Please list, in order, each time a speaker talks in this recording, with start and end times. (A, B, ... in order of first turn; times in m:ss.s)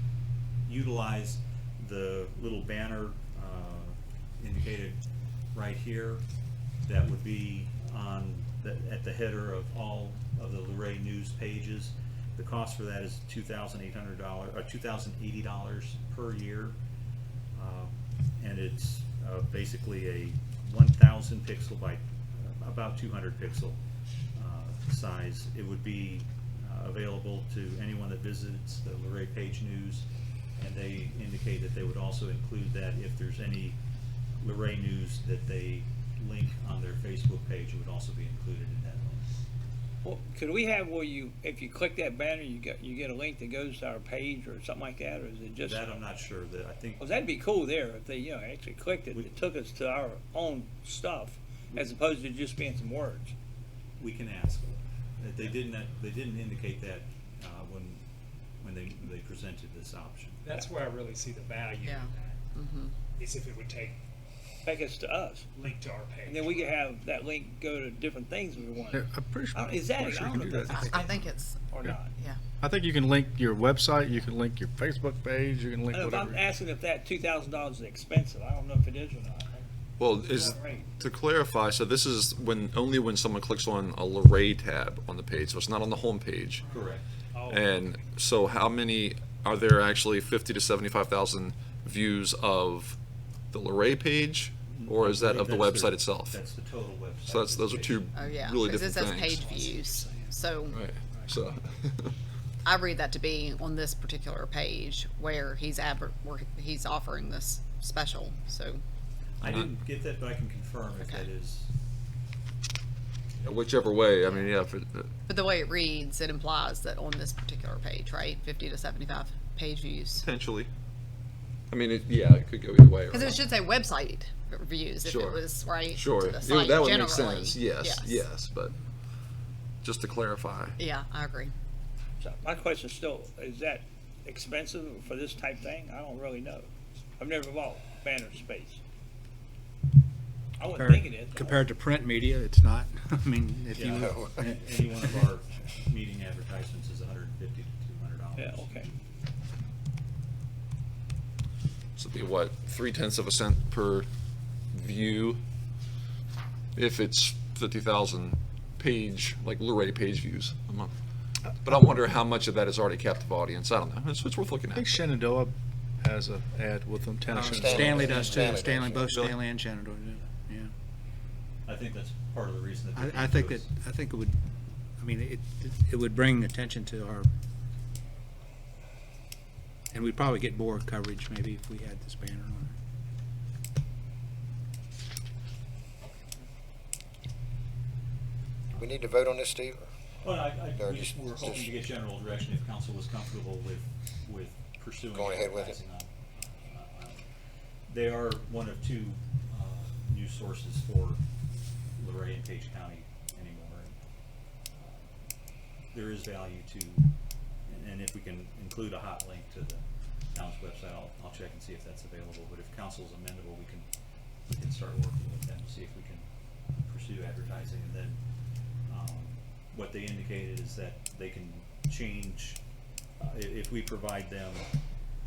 0:00.7-0:05.0 A
0:05.5-0:06.2 A
0:06.8-0:16.8 A
0:17.5-0:23.8 A
0:24.4-0:30.1 A
0:30.6-0:33.8 A
0:34.4-0:39.3 A
0:40.0-0:45.8 B
0:45.6-0:47.2 A
0:47.0-0:53.4 B
0:54.0-0:58.0 A
0:58.6-1:00.7 A
1:00.4-1:02.3 C
1:01.8-1:03.0 D
1:03.2-1:03.9 C
1:04.6-1:05.5 B
1:05.6-1:06.7 C
1:06.3-1:12.1 B
1:08.9-1:10.9 E
1:10.7-1:12.4 D
1:12.6-1:16.4 E
1:15.9-1:19.6 B
1:20.0-1:26.6 F
1:20.3-1:20.9 B
1:26.7-1:27.0 A
1:27.3-1:27.6 B
1:27.5-1:33.0 F
1:33.5-1:36.4 F
1:34.7-1:38.1 A
1:37.3-1:39.4 F
1:38.1-1:40.8 D
1:39.4-1:40.3 C
1:40.7-1:42.1 F
1:42.6-1:48.8 D
1:49.4-1:51.7 A
1:51.0-1:51.3 D
1:53.4-1:55.1 F
1:55.3-2:00.3 D
2:00.2-2:00.7 F
2:01.7-2:03.5 F
2:03.1-2:08.3 D
2:05.0-2:08.8 F
2:09.8-2:10.8 F
2:10.8-2:11.5 D
2:12.2-2:16.7 B
2:17.2-2:18.8 B
2:20.6-2:21.7 B
2:20.8-2:25.3 G
2:23.7-2:28.9 A
2:28.4-2:28.9 B
2:32.0-2:34.1 F
2:34.7-2:35.4 F
2:36.8-2:40.9 F
2:41.6-2:45.0 F
2:44.7-2:48.0 E
2:47.3-2:49.3 H
2:47.4-2:50.7 G
2:48.1-2:48.5 A
2:51.7-2:53.7 A
2:52.9-2:54.4 G
2:55.0-2:57.3 G
2:59.9-3:02.8 G
3:08.8-3:09.8 H
3:10.2-3:17.3 A
3:10.8-3:11.7 H
3:15.1-3:15.8 H
3:17.9-3:21.2 A
3:22.0-3:24.0 A
3:24.8-3:25.1 A
3:25.9-3:27.1 A
3:27.7-3:33.9 A
3:34.5-3:38.2 A
3:38.9-3:42.6 A
3:43.2-3:44.7 A